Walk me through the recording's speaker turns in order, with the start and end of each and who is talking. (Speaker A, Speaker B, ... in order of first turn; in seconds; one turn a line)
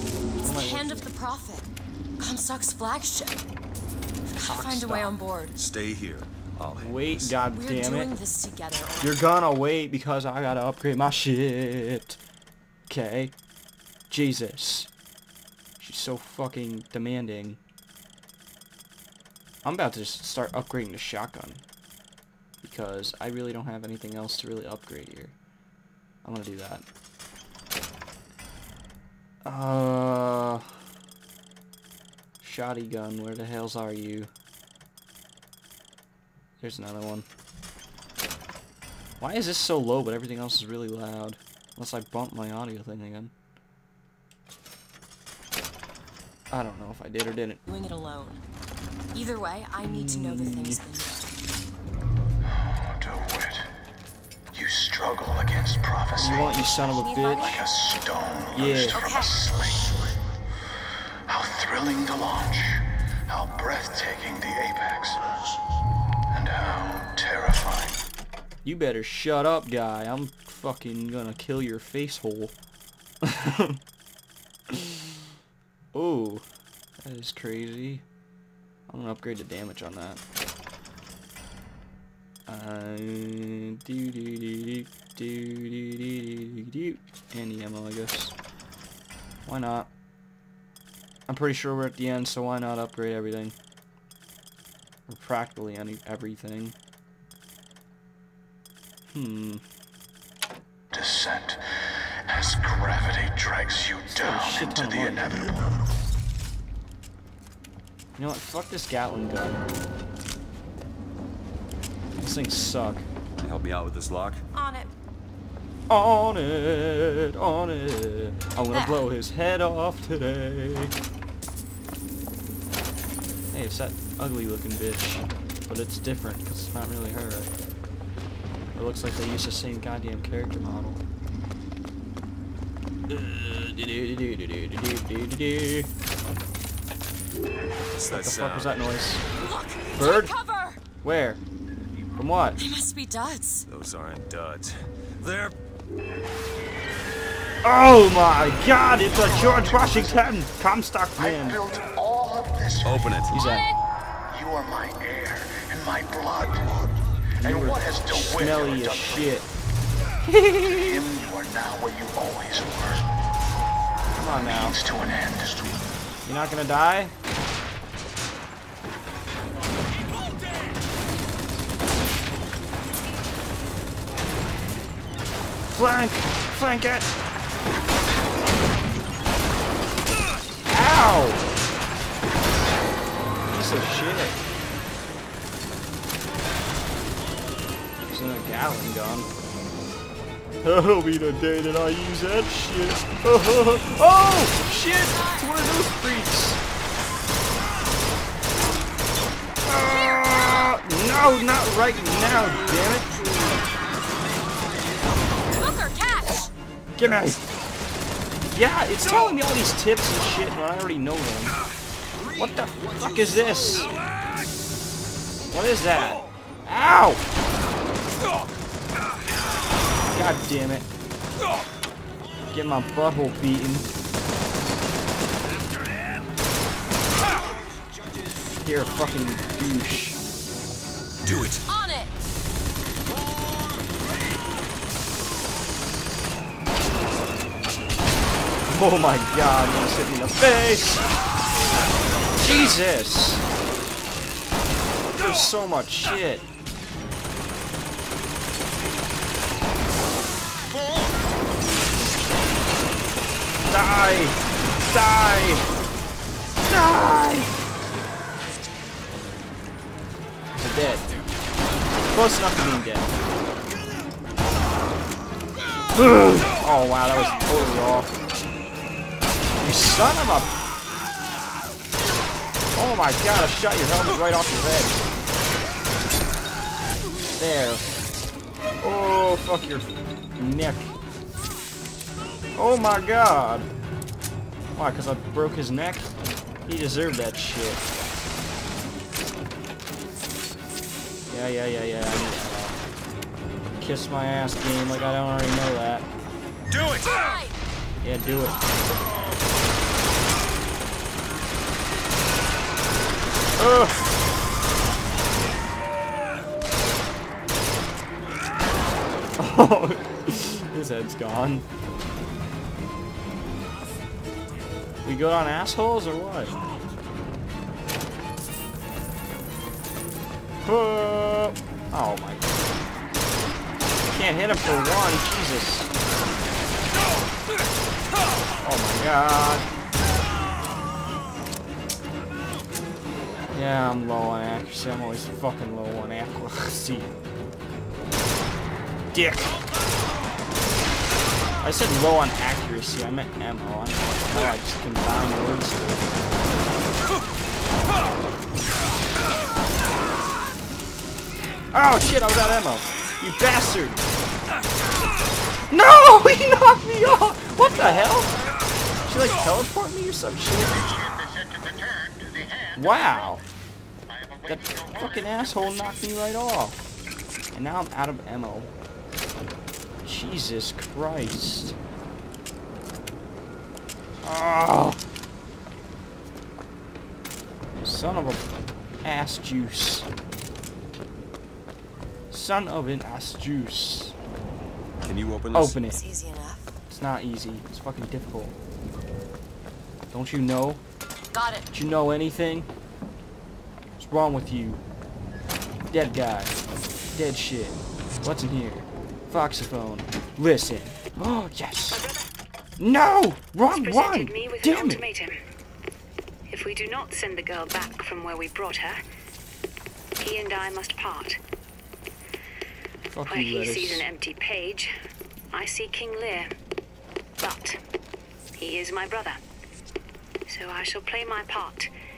Speaker A: 0.4-1.7
Speaker B: 0.4-1.1
Speaker A: 2.2-3.4
Speaker A: 4.3-5.6
Speaker B: 4.4-5.2
Speaker C: 5.5-7.4
Speaker B: 6.8-8.1
Speaker A: 7.5-9.2
Speaker B: 9.0-12.2
Speaker B: 12.9-13.3
Speaker B: 14.1-14.9
Speaker B: 15.8-17.6
Speaker B: 19.6-21.6
Speaker B: 22.6-25.3
Speaker B: 26.2-26.9
Speaker B: 29.4-30.8
Speaker B: 32.4-34.3
Speaker B: 36.6-37.2
Speaker B: 39.2-43.3
Speaker B: 46.5-47.6
Speaker A: 47.6-48.4
Speaker A: 49.1-51.3
Speaker B: 49.8-50.8
Speaker D: 52.5-53.7
Speaker D: 54.5-60.1
Speaker B: 56.1-57.6
Speaker A: 56.9-57.6
Speaker B: 58.5-59.1
Speaker A: 58.9-59.4
Speaker D: 61.2-65.3
Speaker D: 66.3-68.0
Speaker B: 68.6-72.5
Speaker B: 73.2-73.8
Speaker B: 74.7-75.2
Speaker B: 75.9-76.5
Speaker B: 77.0-78.0
Speaker B: 78.9-80.2
Speaker B: 82.5-88.3
Speaker B: 89.5-89.9
Speaker B: 91.3-93.5
Speaker B: 95.1-96.7
Speaker B: 99.1-99.6
Speaker D: 100.9-101.6
Speaker D: 102.3-105.9
Speaker B: 104.1-105.7
Speaker B: 108.2-109.6
Speaker B: 112.2-113.0
Speaker C: 113.4-114.4
Speaker A: 114.5-114.9
Speaker B: 115.9-120.9
Speaker A: 118.7-119.1
Speaker B: 123.5-127.5
Speaker B: 128.7-131.0
Speaker B: 133.1-135.9
Speaker C: 137.9-138.7
Speaker B: 138.1-139.2
Speaker A: 139.4-140.8
Speaker B: 139.9-140.3
Speaker B: 141.0-141.4
Speaker B: 142.2-142.6
Speaker A: 142.6-143.7
Speaker C: 143.7-145.5
Speaker B: 147.6-151.6
Speaker D: 149.1-150.4
Speaker D: 151.2-153.3
Speaker C: 152.8-153.4
Speaker B: 153.3-153.7
Speaker D: 154.3-156.9
Speaker B: 157.4-159.5
Speaker D: 157.4-159.4
Speaker B: 160.2-161.1
Speaker D: 160.6-163.1
Speaker B: 164.1-164.8
Speaker D: 164.3-165.8
Speaker B: 166.2-167.1
Speaker B: 175.7-177.1
Speaker B: 180.7-181.4
Speaker B: 183.4-184.4
Speaker B: 188.1-189.3
Speaker B: 190.6-196.6
Speaker A: 194.6-195.6
Speaker B: 199.6-203.1
Speaker A: 199.9-200.8
Speaker A: 205.5-206.5
Speaker B: 207.0-207.4
Speaker B: 208.5-211.6
Speaker B: 212.3-213.9
Speaker B: 215.5-217.2
Speaker B: 220.1-220.9
Speaker B: 222.5-223.9
Speaker B: 228.6-230.2
Speaker C: 231.2-231.6
Speaker A: 231.6-232.1
Speaker B: 238.7-241.0
Speaker B: 242.4-243.4
Speaker B: 245.2-246.4
Speaker B: 253.7-255.7
Speaker B: 256.6-257.5
Speaker B: 260.5-261.1
Speaker B: 262.1-263.1
Speaker B: 265.9-268.2
Speaker B: 269.6-270.5
Speaker B: 272.8-275.0
Speaker B: 277.4-277.8
Speaker B: 278.8-280.9
Speaker B: 282.5-283.7
Speaker B: 284.8-286.1
Speaker B: 286.7-287.9
Speaker B: 291.3-292.8
Speaker B: 293.8-296.1
Speaker C: 296.7-297.1
Speaker A: 297.0-297.6
Speaker B: 298.0-298.6
Speaker B: 303.6-304.0
Speaker B: 309.4-311.6
Speaker B: 315.0-316.6
Speaker B: 320.6-322.6
Speaker B: 324.1-325.9
Speaker B: 328.6-329.7
Speaker B: 333.5-337.1
Speaker B: 339.1-339.6
Speaker B: 341.6-346.1
Speaker B: 351.7-354.0
Speaker B: 355.7-358.3
Speaker B: 359.1-360.9
Speaker B: 362.7-363.4
Speaker B: 364.4-366.8
Speaker B: 367.5-368.7
Speaker B: 370.0-371.8
Speaker B: 374.2-375.0
Speaker B: 377.8-378.4
Speaker B: 379.0-380.1
Speaker B: 382.3-384.1
Speaker C: 385.0-385.8
Speaker B: 385.5-386.0
Speaker A: 385.9-386.7
Speaker B: 386.9-388.5
Speaker B: 390.1-390.8
Speaker A: 391.3-391.7
Speaker B: 391.7-392.7
Speaker B: 394.0-394.8
Speaker B: 395.9-396.5
Speaker B: 397.1-402.1
Speaker E: 401.9-402.2
Speaker B: 402.8-405.0
Speaker E: 403.7-405.3
Speaker E: 406.5-409.0
Speaker E: 410.2-411.4
Speaker B: 413.1-414.1
Speaker E: 413.3-414.9
Speaker E: 415.5-416.5
Speaker E: 417.4-417.8
Speaker E: 418.6-419.4
Speaker E: 420.5-421.9